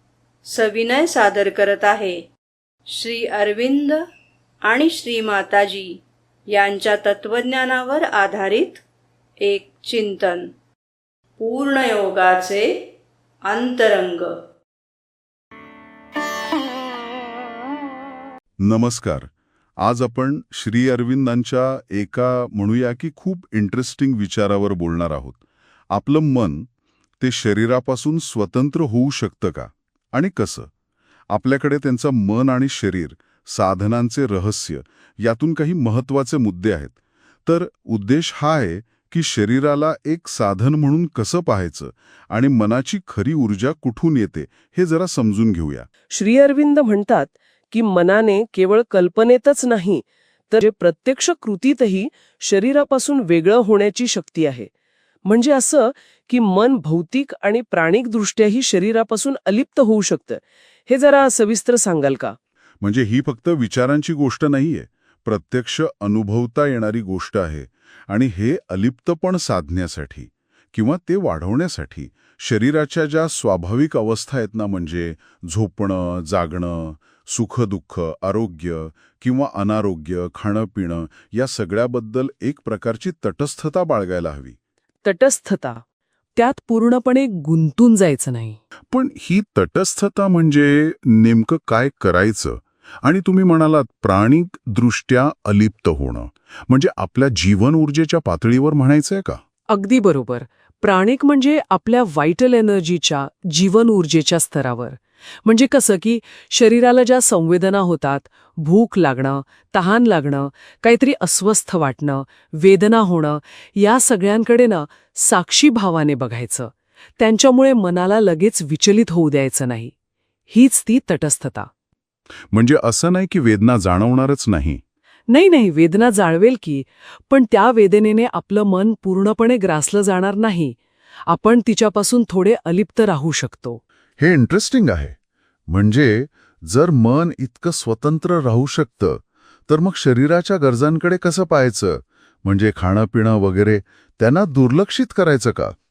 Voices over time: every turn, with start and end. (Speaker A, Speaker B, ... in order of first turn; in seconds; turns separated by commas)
Speaker A: 0.5-2.2, Speaker A: 2.9-4.0, Speaker A: 4.7-8.8, Speaker A: 9.4-10.5, Speaker A: 11.4-12.7, Speaker A: 13.5-14.3, Speaker B: 18.6-25.4, Speaker B: 25.9-26.7, Speaker B: 27.2-30.7, Speaker B: 31.3-45.9, Speaker C: 46.1-54.7, Speaker C: 55.2-62.4, Speaker B: 62.8-84.6, Speaker C: 85.0-85.8, Speaker C: 86.3-88.6, Speaker B: 88.9-99.4, Speaker C: 99.7-119.9, Speaker C: 120.5-121.7, Speaker B: 122.5-124.8, Speaker C: 125.3-133.8, Speaker B: 134.2-135.2, Speaker B: 135.7-145.7